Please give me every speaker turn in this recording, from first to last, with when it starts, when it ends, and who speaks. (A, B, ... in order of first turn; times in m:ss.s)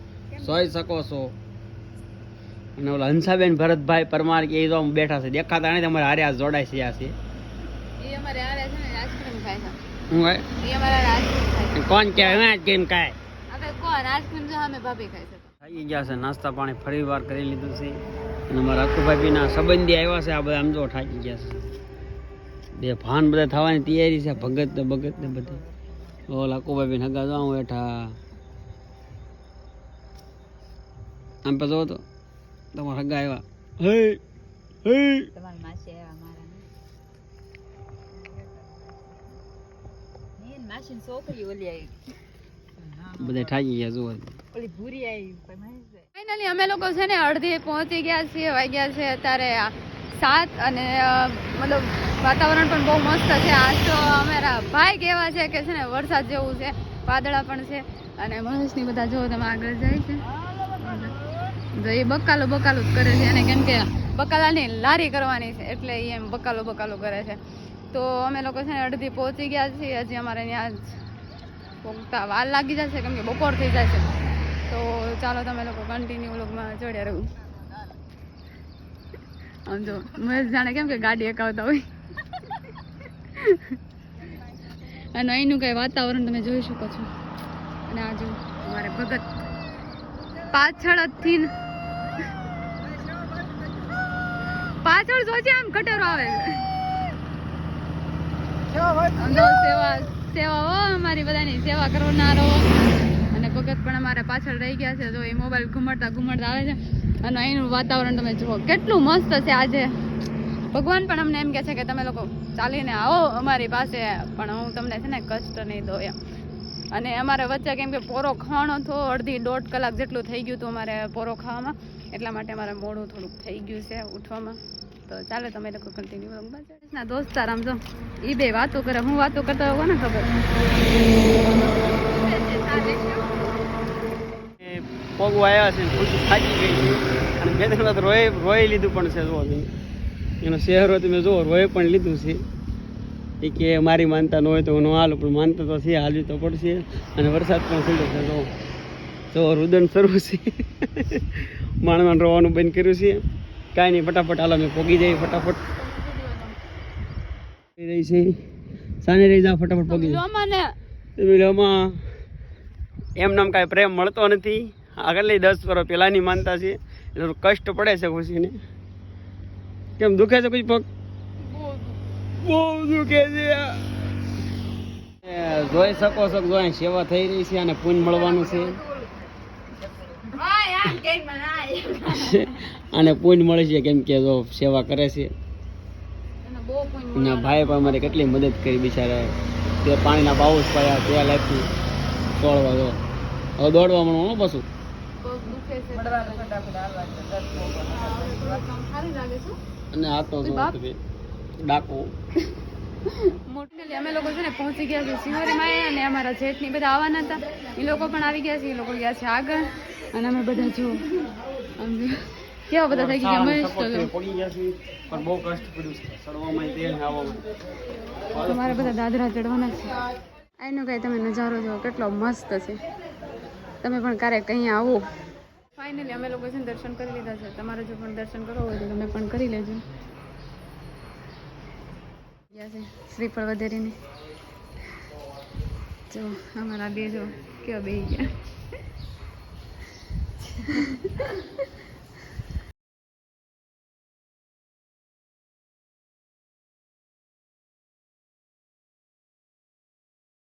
0:00.3-0:00.6 A
0:00.4-0:01.3 B
0:02.8-0:07.2 B
0:08.0-0:09.8 A
0:10.1-0:10.5 B
0:10.6-0:12.5 A
0:11.7-0:13.2 B
0:13.5-0:15.5 A
0:15.6-0:21.7 B
0:22.8-0:25.6 B
0:24.3-0:26.2 C
0:26.3-0:28.2 B
0:31.4-0:32.0 B
0:32.7-0:34.2 B
0:34.8-0:35.3 B
0:35.3-0:36.7 C
0:38.1-0:39.4 C
0:40.4-0:42.0 C
0:42.9-0:43.3 C
0:43.1-0:44.4 B
0:44.5-0:46.0 C
0:46.1-1:00.2 A
1:00.8-1:01.1 A
1:01.7-1:07.4 A
1:07.9-1:10.9 A
1:11.8-1:14.1 A
1:14.6-1:17.3 A
1:19.6-1:22.7 A
1:23.3-1:23.8 A
1:25.1-1:27.1 A
1:27.9-1:29.3 A
1:30.5-1:31.5 A
1:34.8-1:36.7 A
1:39.1-1:49.9 A
1:50.7-1:56.2 A
1:56.9-2:10.4 A
2:11.8-2:13.3 C
2:14.6-2:19.7 B
2:20.4-2:22.4 B
2:23.4-2:28.5 B
2:29.3-2:33.2 B
2:33.7-2:35.6 B
2:35.7-2:36.6 A
2:37.8-2:38.4 B
2:39.0-2:40.2 B
2:39.9-2:40.7 A
2:41.2-2:42.0 B
2:43.2-2:48.6 B
2:50.0-2:50.8 B
2:51.4-2:52.0 A
2:52.4-2:53.9 B
2:55.2-2:58.8 B
2:58.3-2:59.1 C
2:59.8-3:02.4 C
3:00.5-3:01.2 A
3:02.0-3:05.3 B
3:06.4-3:08.4 A
3:07.1-3:11.7 B
3:12.3-3:13.0 B
3:13.6-3:14.6 B
3:15.2-3:16.8 A
3:16.8-3:17.3 C
3:17.7-3:19.6 A
3:19.9-3:21.0 B
3:20.4-3:20.8 A
3:21.6-3:22.1 B
3:23.0-3:34.1 A
3:32.9-3:37.4 B
3:38.3-3:39.0 B
3:38.3-3:40.0 A
3:40.6-3:42.8 A
3:43.8-3:45.1 A
3:45.8-3:49.8 A
3:52.5-3:54.0 A
3:56.1-3:58.4 A
4:00.7-4:01.3 A